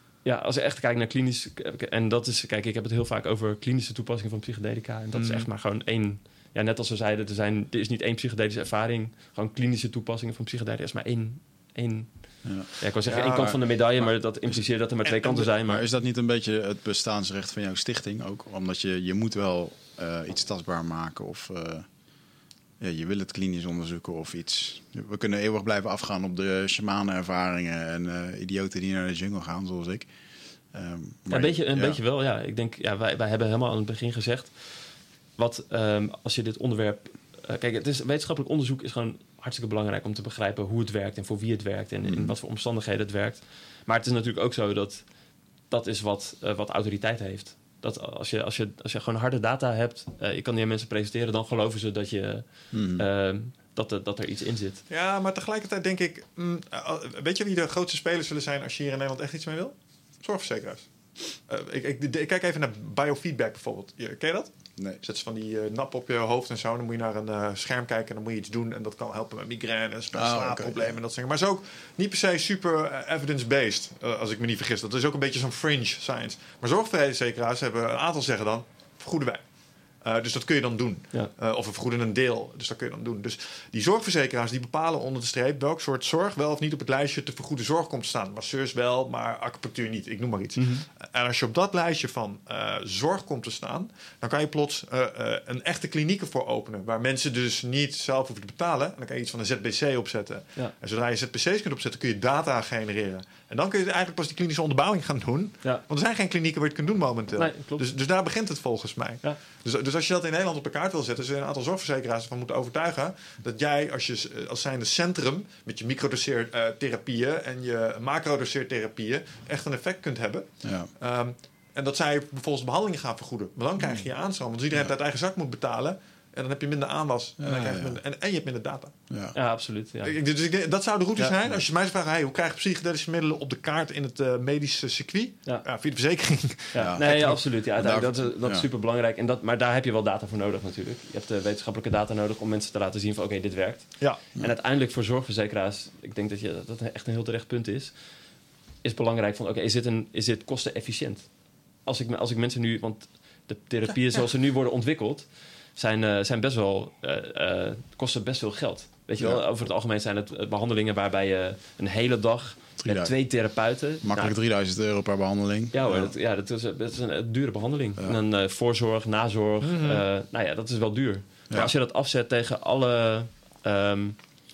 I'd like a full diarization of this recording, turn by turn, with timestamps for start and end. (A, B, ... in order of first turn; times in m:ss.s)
0:00.2-0:15.8 A
0:05.1-0:05.5 B
0:13.0-0:14.1 B
0:15.0-0:15.4 B
0:15.5-0:21.9 C
0:22.8-0:30.1 C
0:30.7-0:32.0 C
0:31.3-0:34.5 A
0:35.4-0:45.1 A
0:42.0-0:42.3 C
0:45.7-0:54.8 A
0:52.7-0:53.0 C
0:54.9-1:00.9 B
1:01.4-1:19.4 B
1:10.1-1:10.9 C
1:20.0-2:08.9 B
1:30.6-1:30.8 A
1:47.4-1:47.8 A
2:00.6-2:00.9 C
2:03.8-2:04.0 C
2:07.4-2:08.0 C
2:09.1-2:09.3 C
2:09.3-2:10.1 A
2:10.0-2:17.4 B
2:16.7-2:27.9 A
2:16.8-2:18.6 C
2:28.8-2:31.3 A
2:31.8-2:44.3 A
2:42.8-2:43.1 C
2:44.0-2:46.1 C
2:45.7-2:54.2 A
2:49.6-2:50.0 B